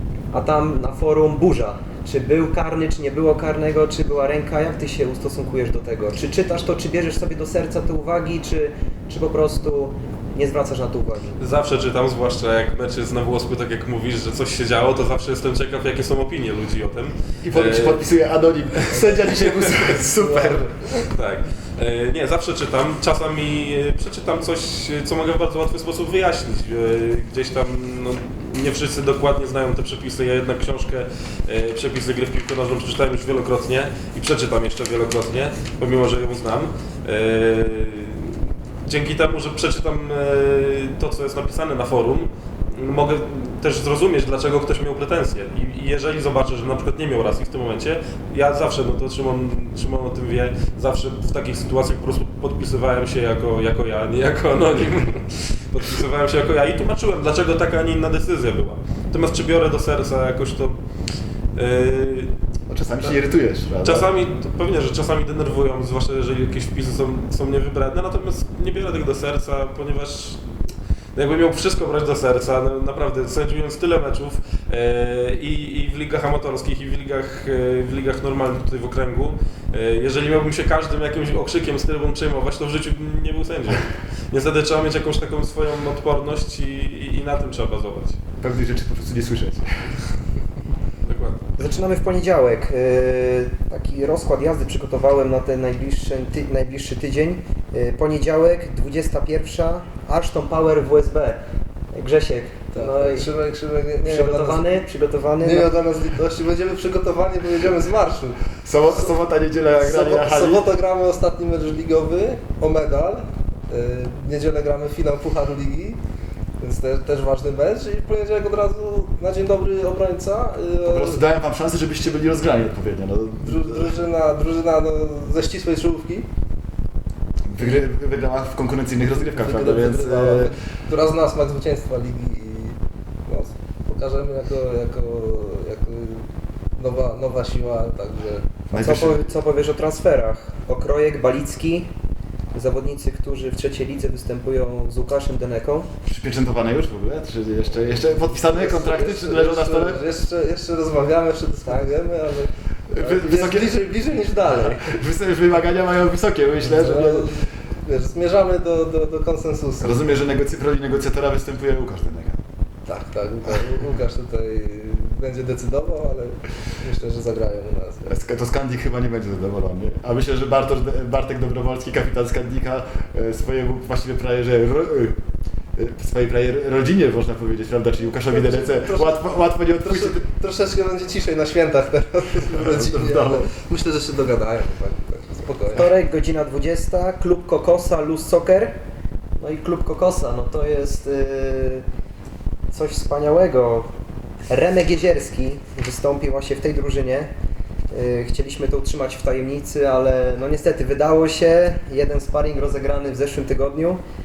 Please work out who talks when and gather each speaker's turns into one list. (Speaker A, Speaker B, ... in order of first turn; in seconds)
Speaker A: 0.3-11.4, 91.6-101.4, 101.9-103.3, 104.0-105.7, 138.7-141.9, 142.5-145.9, 185.8-188.8, 189.4-191.8, 192.7-193.9, 194.5-197.3, 197.9-204.0
Speaker B: 11.4-18.1, 19.4-19.9, 21.1-60.8, 61.6-62.3, 63.8-70.5, 71.2-88.2, 91.0-91.4
Speaker C: 17.4-20.7, 62.7-64.1, 88.4-90.0, 108.7-110.7, 120.8-124.0, 127.5-130.5, 138.7-139.3, 146.1-150.0, 152.9-157.4, 159.8-162.4, 168.1-175.2, 175.8-180.2, 182.5-183.5
Speaker D: 19.0-19.3, 20.0-21.1, 102.7-104.8, 105.4-108.5, 109.8-116.0, 116.6-121.2, 123.4-126.3, 129.2-136.2, 136.8-138.5, 148.3-155.0, 156.6-160.1, 162.9-168.1, 178.3-185.9